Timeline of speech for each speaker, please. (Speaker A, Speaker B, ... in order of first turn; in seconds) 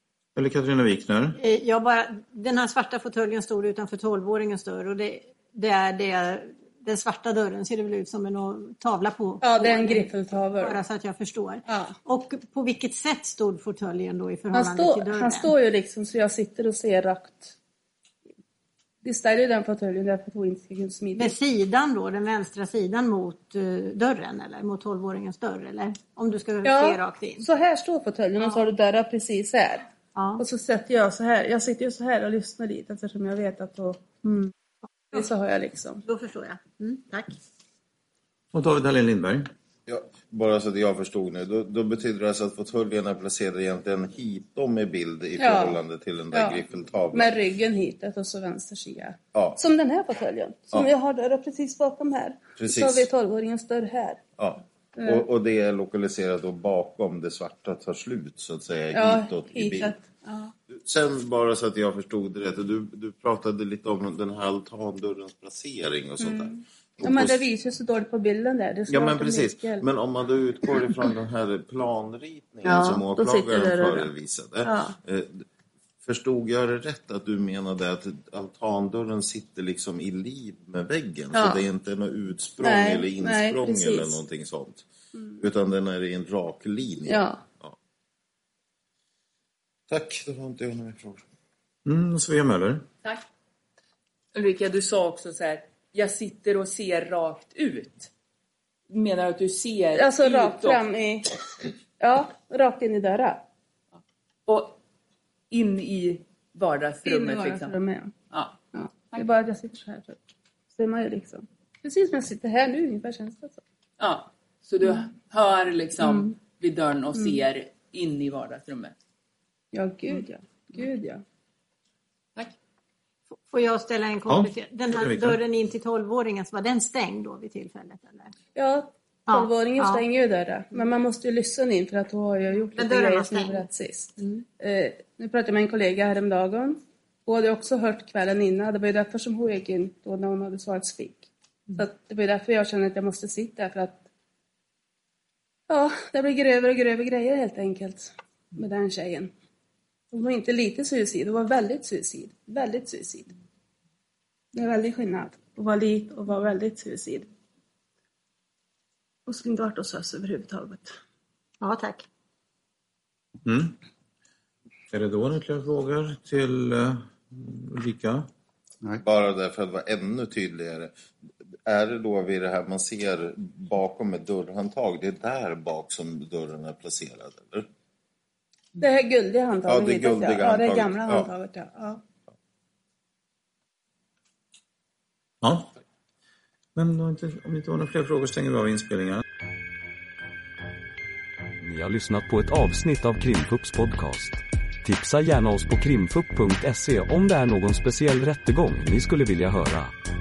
Speaker A: 0.3-1.4, 38.5-39.5, 91.8-92.9, 124.3-125.4, 163.4-163.8, 164.9-168.3, 185.4-185.7, 186.7-189.2
Speaker B: 1.4-15.5, 21.1-27.4, 30.1-30.4, 36.0-37.4, 123.5-128.3, 129.3-130.0, 132.8-134.4, 161.6-162.1
Speaker C: 9.4-10.8, 11.7-11.9, 14.5-17.6, 19.0-21.3, 26.6-29.9, 30.4-34.5, 35.1-36.0, 45.4-45.8, 46.3-46.6, 47.1-54.2, 55.0-55.2, 58.9-60.5, 66.2-69.8, 72.6-74.1, 74.6-75.0, 81.3-81.6, 82.6-84.2, 87.1-87.4, 99.9-101.3, 102.0-103.4, 107.0-108.1, 108.7-110.2, 110.7-113.6, 114.8-115.1, 116.0-116.3, 117.1-117.4, 119.7-121.2, 128.5-144.0, 145.7-149.3, 150.1-153.3, 154.5-157.3, 159.3-161.0, 178.8-182.0
Speaker D: 39.9-47.3, 49.3-49.6, 52.6-53.1, 54.4-60.0, 60.7-67.5, 68.9-75.5, 76.0-84.9, 85.4-87.8, 89.9-91.2, 169.0-171.0, 171.7-177.7, 179.7-181.3
Speaker E: 94.3-98.1, 98.9-100.8, 104.5-104.8, 105.5-107.7, 108.3-108.6, 114.0-119.0
Speaker F: 191.6-199.9